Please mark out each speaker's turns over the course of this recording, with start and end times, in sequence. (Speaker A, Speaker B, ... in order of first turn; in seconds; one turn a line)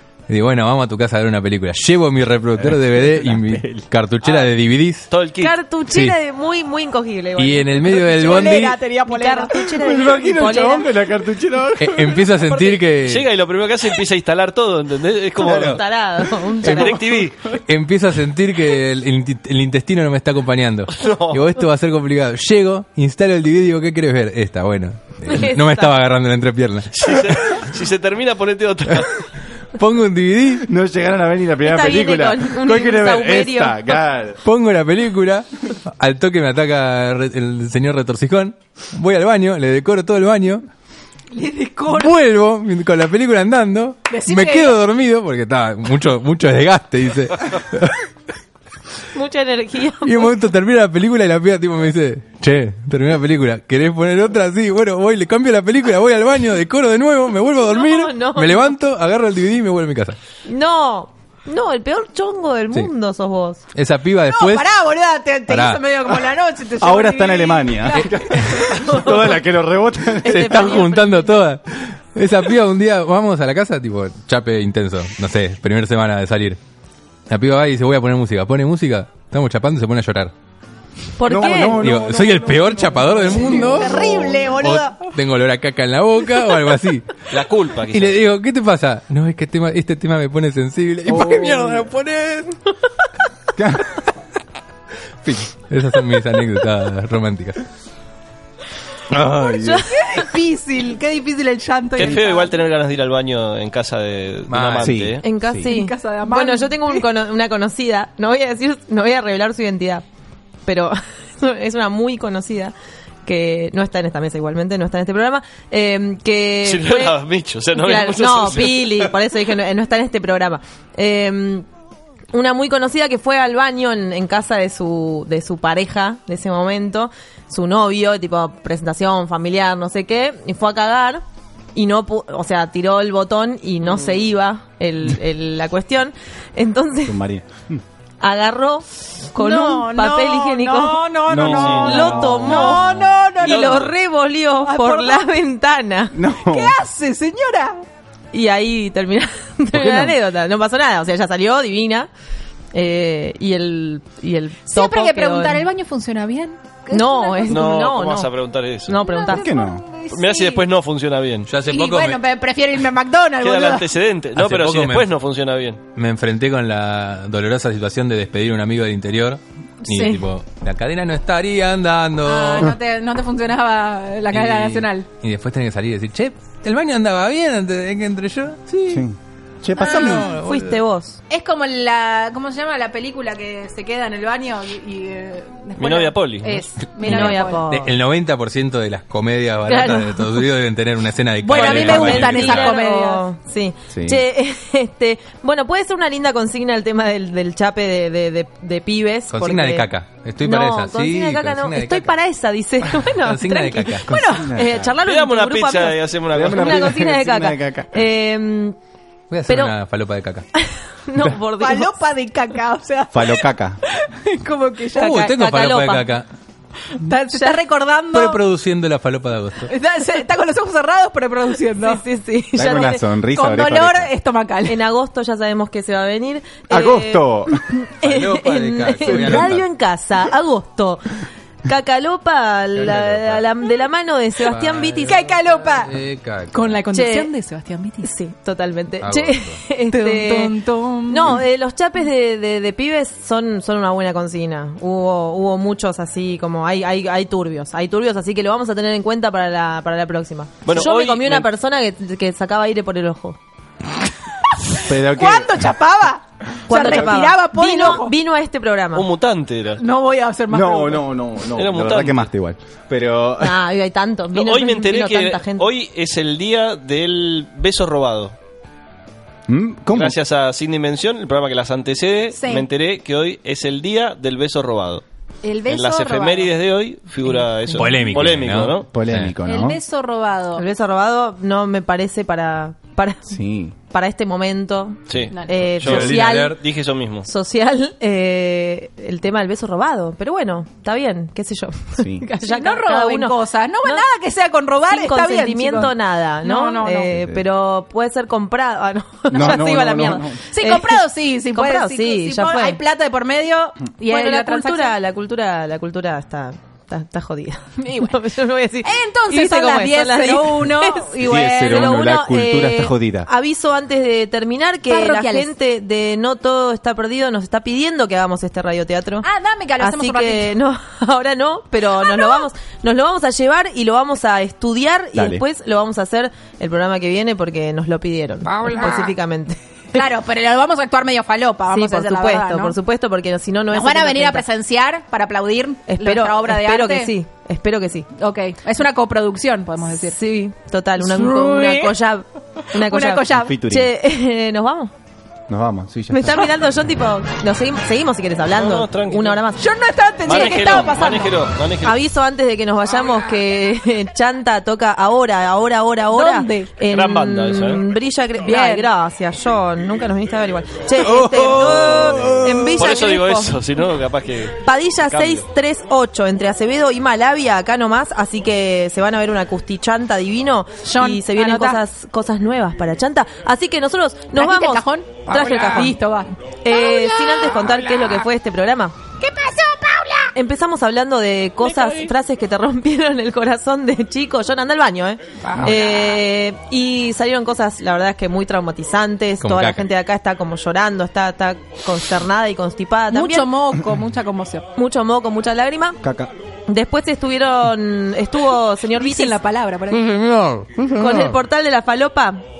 Speaker A: 0.3-5.1
Speaker B: 2.6-3.9
Speaker C: 4.2-4.5
Speaker C: 5.1-5.5
Speaker D: 5.4-10.9
Speaker A: 5.9-6.2
Speaker A: 7.4-8.8
Speaker E: 7.9-9.7
Speaker B: 9.8-12.2
Speaker A: 11.8-13.2
Speaker C: 12.6-15.8
Speaker D: 15.4-17.0
Speaker A: 15.4-15.8
Speaker B: 16.6-17.4
Speaker C: 16.6-17.4
Speaker A: 17.7-26.9
Speaker C: 21.0-21.4
Speaker D: 25.2-26.0
Speaker C: 26.9-29.1
Speaker A: 29.8-30.6
Speaker B: 30.6-34.4
Speaker D: 31.6-34.0
Speaker A: 34.4-40.6
Speaker E: 41.3-42.1
Speaker A: 41.9-48.0
Speaker E: 44.1-44.8
Speaker D: 49.1-50.3
Speaker A: 50.0-60.2
Speaker D: 57.6-58.7
Speaker D: 60.4-63.6
Speaker A: 63.7-64.7
Speaker E: 64.2-69.2
Speaker A: 65.5-65.8
Speaker B: 66.8-70.5
Speaker D: 70.2-71.4
Speaker A: 70.2-76.6
Speaker A: 77.3-80.3
Speaker D: 81.2-81.8
Speaker B: 81.3-84.1
Speaker A: 81.7-87.0
Speaker D: 83.5-84.9
Speaker E: 84.0-84.5
Speaker C: 87.3-88.2
Speaker A: 87.9-92.5
Speaker B: 91.1-91.9
Speaker B: 93.5-93.9
Speaker B: 95.2-95.5
Speaker A: 95.7-97.6
Speaker B: 99.1-99.8
Speaker D: 99.5-100.2
Speaker E: 99.9-102.5
Speaker C: 102.0-105.2
Speaker A: 104.5-105.0
Speaker B: 104.8-105.7
Speaker D: 105.2-110.0
Speaker E: 105.7-107.0
Speaker D: 110.7-112.7
Speaker D: 113.2-117.2
Speaker C: 116.6-119.1
Speaker D: 117.7-121.7
Speaker D: 122.3-131.2
Speaker D: 131.7-137.2
Speaker B: 137.0-137.8
Speaker D: 138.2-141.0
Speaker E: 139.3-143.9
Speaker B: 141.3-142.6
Speaker C: 141.4-142.4
Speaker D: 141.7-142.8
Speaker D: 143.4-146.2
Speaker C: 143.4-143.9
Speaker E: 144.6-145.3
Speaker B: 146.1-146.8
Speaker E: 146.4-147.8
Speaker D: 148.3-152.1
Speaker B: 149.7-150.2
Speaker D: 152.7-155.6
Speaker E: 154.7-157.7
Speaker D: 156.9-159.4
Speaker C: 157.5-159.0
Speaker E: 159.0-160.7
Speaker B: 159.3-159.8
Speaker C: 160.1-161.5
Speaker A: 161.4-162.2
Speaker E: 161.6-163.9
Speaker C: 163.4-165.8
Speaker A: 164.3-165.1
Speaker A: 165.9-172.7
Speaker E: 169.8-170.2
Speaker E: 172.2-175.1
Speaker A: 174.3-179.0
Speaker B: 178.9-180.3
Speaker A: 179.7-180.8
Speaker D: 179.9-181.2
Speaker E: 181.3-187.7
Speaker C: 185.8-186.7
Speaker A: 187.0-192.8
Speaker D: 187.0-187.9
Speaker D: 189.7-190.4
Speaker E: 191.4-193.2
Speaker D: 191.5-199.9
Speaker B: 193.9-194.2
Speaker A: 199.3-202.1
Speaker D: 200.4-208.8
Speaker A: 203.2-204.1
Speaker E: 204.1-204.6
Speaker B: 204.1-204.9
Speaker C: 205.0-207.0
Speaker B: 206.3-207.9
Speaker A: 209.3-210.4
Speaker D: 209.5-209.8
Speaker D: 210.5-211.9
Speaker E: 211.6-215.3
Speaker B: 213.1-213.8
Speaker A: 214.9-216.2
Speaker D: 215.0-216.1
Speaker E: 216.9-218.4
Speaker D: 217.3-217.6
Speaker A: 218.1-219.7
Speaker E: 219.6-222.0
Speaker D: 221.8-223.0
Speaker B: 222.5-224.1
Speaker E: 223.3-224.8
Speaker D: 224.7-235.3
Speaker B: 226.7-227.6
Speaker A: 228.0-229.6
Speaker A: 232.8-233.4
Speaker A: 234.5-236.8
Speaker E: 235.0-238.1
Speaker D: 236.9-237.3
Speaker D: 238.0-240.6
Speaker A: 239.0-239.6
Speaker E: 239.8-241.3
Speaker D: 241.1-253.4
Speaker C: 250.6-251.5
Speaker E: 254.8-258.1
Speaker B: 254.8-255.7
Speaker D: 256.7-259.1
Speaker B: 256.7-257.2
Speaker C: 258.9-259.8
Speaker E: 259.8-261.1
Speaker B: 260.5-263.6
Speaker C: 261.5-262.3
Speaker D: 263.4-265.7
Speaker C: 264.3-268.3
Speaker B: 269.5-270.2
Speaker C: 269.9-275.0
Speaker E: 272.3-272.7
Speaker E: 275.4-276.5
Speaker C: 275.6-278.9
Speaker E: 277.2-278.3
Speaker A: 277.7-279.3
Speaker B: 278.8-279.8
Speaker E: 279.4-280.6
Speaker D: 280.6-283.4
Speaker B: 283.3-283.8
Speaker D: 283.9-286.6
Speaker C: 285.1-287.3
Speaker E: 285.3-285.8
Speaker A: 285.8-286.5
Speaker D: 287.2-294.1
Speaker B: 292.0-292.3
Speaker E: 292.4-297.1
Speaker D: 294.9-302.8
Speaker B: 297.1-297.4
Speaker E: 299.3-299.6
Speaker B: 299.3-300.4
Speaker E: 300.4-304.9
Speaker D: 304.1-319.3
Speaker E: 308.8-312.0
Speaker B: 311.2-313.3
Speaker E: 314.9-315.5
Speaker E: 319.2-320.6
Speaker D: 319.8-330.0
Speaker E: 322.0-322.4
Speaker B: 325.1-325.4
Speaker E: 328.6-328.9
Speaker E: 329.9-332.8
Speaker D: 331.7-334.4
Speaker E: 333.7-337.1
Speaker D: 335.9-338.1
Speaker E: 338.2-340.2
Speaker D: 339.9-344.9
Speaker E: 341.0-341.9
Speaker E: 342.7-343.6
Speaker B: 343.4-343.9
Speaker B: 345.5-346.4
Speaker D: 346.1-349.6
Speaker C: 348.5-349.4
Speaker E: 349.6-351.3
Speaker C: 350.2-352.0
Speaker D: 351.8-363.6
Speaker E: 356.1-356.7
Speaker C: 356.9-357.8
Speaker E: 358.4-358.9
Speaker A: 361.0-362.9
Speaker C: 362.2-365.4
Speaker D: 364.6-375.9
Speaker E: 370.8-371.8
Speaker E: 374.3-377.6
Speaker D: 376.6-378.9
Speaker E: 379.2-380.3
Speaker D: 380.3-393.5
Speaker A: 389.4-389.9
Speaker E: 393.1-394.6
Speaker D: 394.8-396.0
Speaker B: 396.0-396.3
Speaker D: 396.7-399.4
Speaker E: 398.9-400.2
Speaker A: 400.2-400.7
Speaker D: 400.8-402.4